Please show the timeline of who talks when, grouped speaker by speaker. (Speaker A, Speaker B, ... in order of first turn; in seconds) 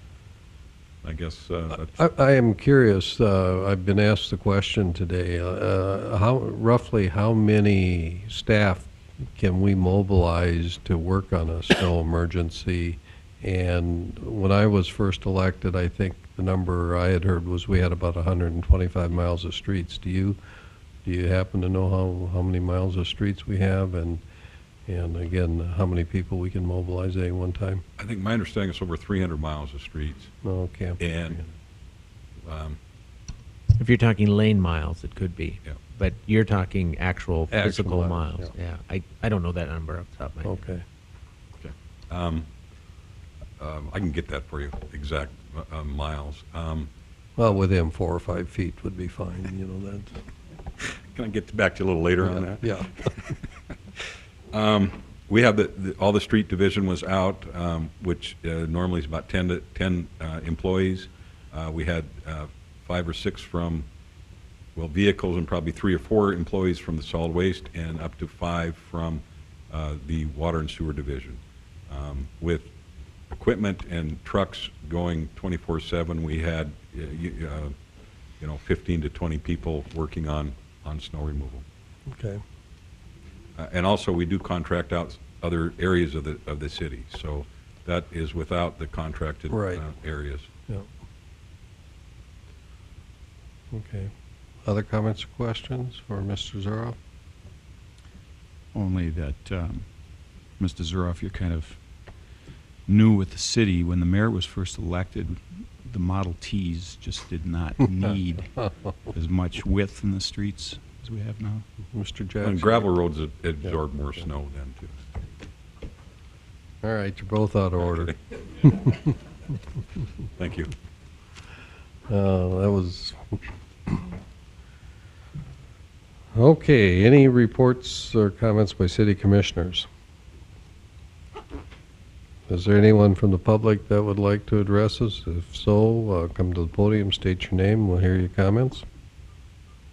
Speaker A: 1.0-2.0, 28.0-30.3, 31.0-31.4, 32.5-32.8, 41.6-42.5, 43.6-46.9, 50.8-53.3, 54.5-63.9, 64.8-72.7, 73.3-77.7, 78.4-81.7, 83.6-90.5, 112.4-115.0, 120.4-120.7
Speaker B: 1.8-20.4, 21.1-24.2, 24.9-27.8, 30.4-31.5, 37.5-38.5, 40.4-40.9, 47.4-50.2, 52.2-53.0, 82.1-82.4, 89.5-89.8, 93.7-94.1, 94.7-97.0, 111.9-112.9, 116.8-119.1, 122.1-123.4, 126.3-129.9, 132.5-138.8
Speaker C: 33.8-40.5
Speaker D: 98.7-99.9, 100.6-101.8, 102.9-111.7